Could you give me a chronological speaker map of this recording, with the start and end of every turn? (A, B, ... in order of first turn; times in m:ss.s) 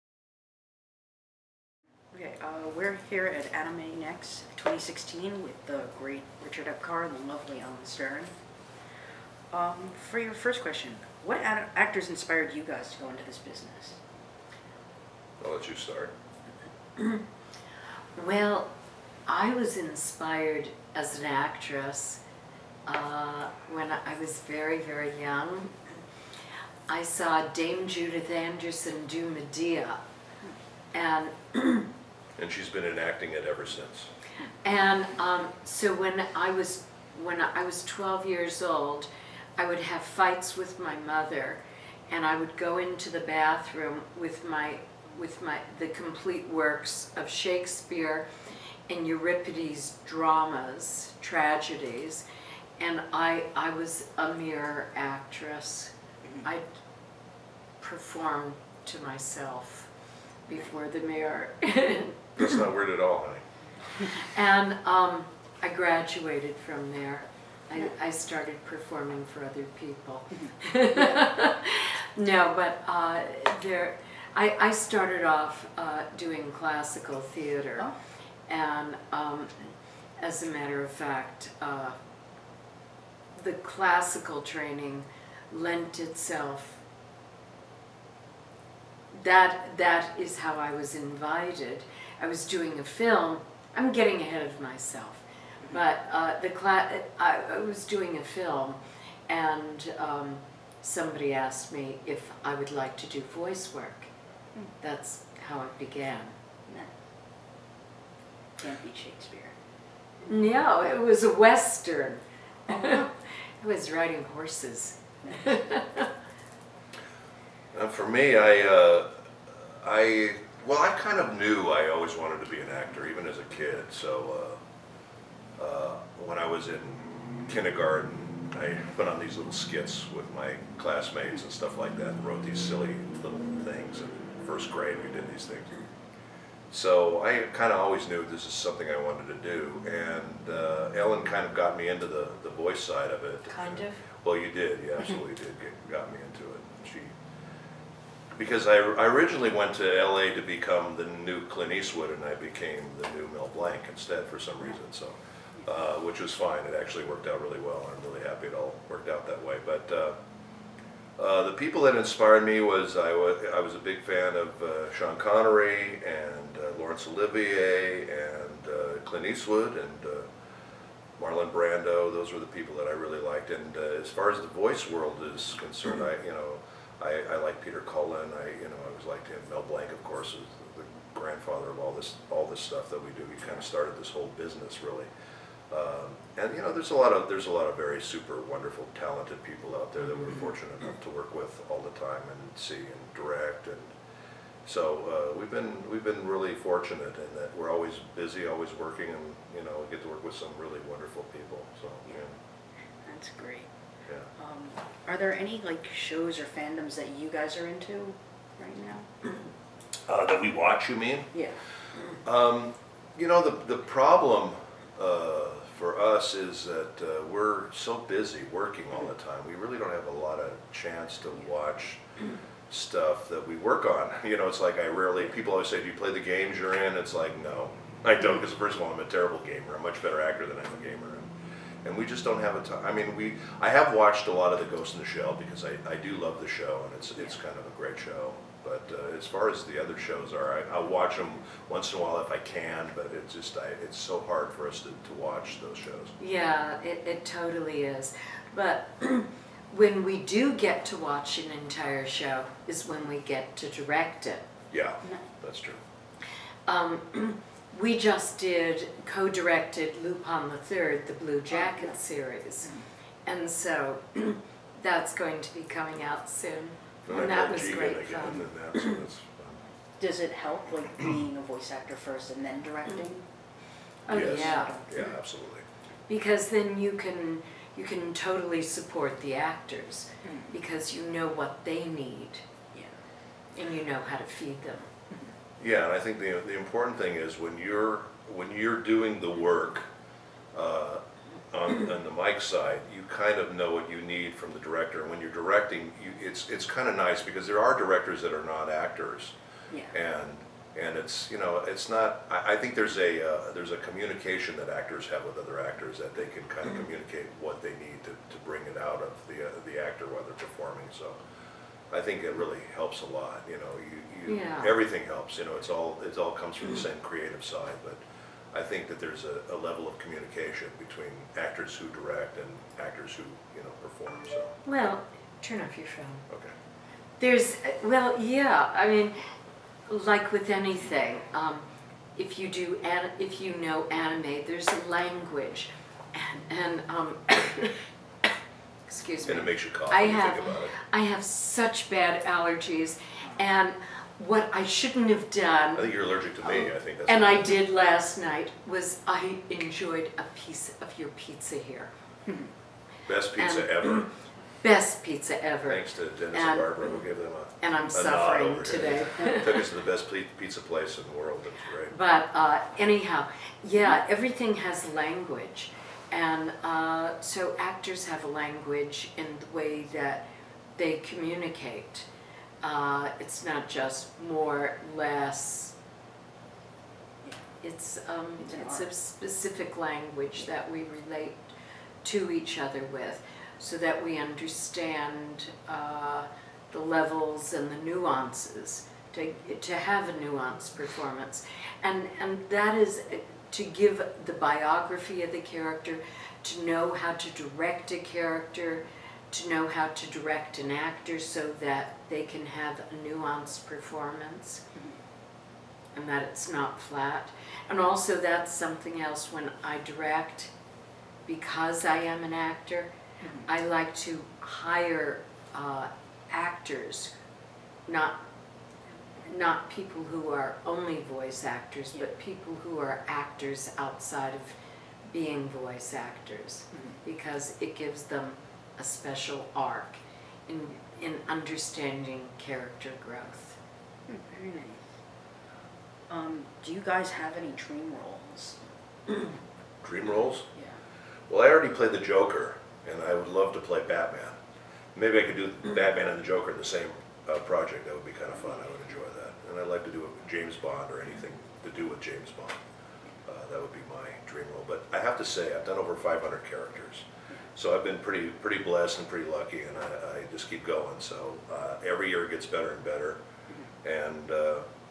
0:02.1-0:08.3 A
0:09.5-0:14.0 A
0:15.4-0:16.1 B
0:18.2-0:18.7 C
0:19.3-0:22.2 C
0:22.8-0:25.8 C
0:26.9-0:30.0 C
0:30.9-0:31.9 C
0:32.4-0:34.1 B
0:34.6-0:48.3 C
0:48.9-0:52.2 C
0:52.8-0:56.6 C
0:57.8-0:59.9 C
1:00.5-1:02.5 C
1:02.4-1:03.4 B
1:04.0-1:17.9 C
1:18.5-1:22.0 C
1:23.3-1:26.8 C
1:29.1-1:44.1 C
1:44.8-1:46.3 C
1:46.7-1:46.9 A
1:48.6-1:49.5 A
1:50.2-1:56.1 C
1:52.7-1:53.0 A
1:57.7-2:04.6 B
2:05.6-2:15.7 B
2:16.7-2:27.1 B
2:23.5-2:24.0 C
2:28.3-2:40.1 B
2:41.2-2:50.3 B
2:51.2-3:05.1 B
3:05.7-3:13.9 B
3:14.6-3:22.4 B
3:23.0-3:23.7 A
3:24.4-3:29.1 A
3:30.1-3:31.3 B
3:31.3-3:31.6 A
3:32.1-3:42.0 B
3:42.7-3:51.3 B
3:51.8-4:06.1 B
4:06.2-4:14.4 C
4:14.7-4:15.8 B
4:16.7-4:22.7 C
4:21.6-4:21.9 A
4:23.2-4:28.4 C
4:27.1-4:29.6 B
4:30.0-4:33.2 A
4:34.0-4:34.7 C
4:34.1-4:35.1 A
4:34.1-4:35.6 B
4:36.1-4:42.4 C
4:40.2-4:40.5 A
4:43.5-4:44.9 C
4:45.6-4:49.9 B
4:50.5-4:59.3 B
4:59.9-5:11.2 B
5:11.9-5:18.0 B
5:14.3-5:14.7 C
5:18.5-5:24.6 B
5:24.6-5:26.3 C
5:26.3-5:26.5 B
5:27.2-5:29.2 C
5:29.9-5:37.8 C
5:38.9-5:45.9 C
5:39.2-5:40.8 B
5:45.7-5:47.5 B
5:46.4-5:51.9 C
5:53.1-5:54.1 B
5:53.4-5:54.1 C
5:54.6-5:56.8 C
5:55.6-6:01.9 B
5:57.6-5:59.6 C
6:01.9-6:12.0 C
6:12.6-6:15.7 C
6:17.6-6:44.6 C
6:18.4-6:18.9 A
6:45.9-6:50.5 C
6:51.2-6:52.9 C
6:53.2-6:53.5 A
6:53.4-6:57.1 C
6:57.9-6:58.2 C
6:59.3-7:04.6 C
7:05.1-7:13.6 C
7:06.7-7:07.0 A
7:14.1-7:14.9 A
7:16.1-7:18.6 A
7:19.8-7:20.5 B
7:21.3-7:24.4 B
7:24.9-7:32.6 B
7:33.2-7:43.2 B
7:43.8-7:44.6 B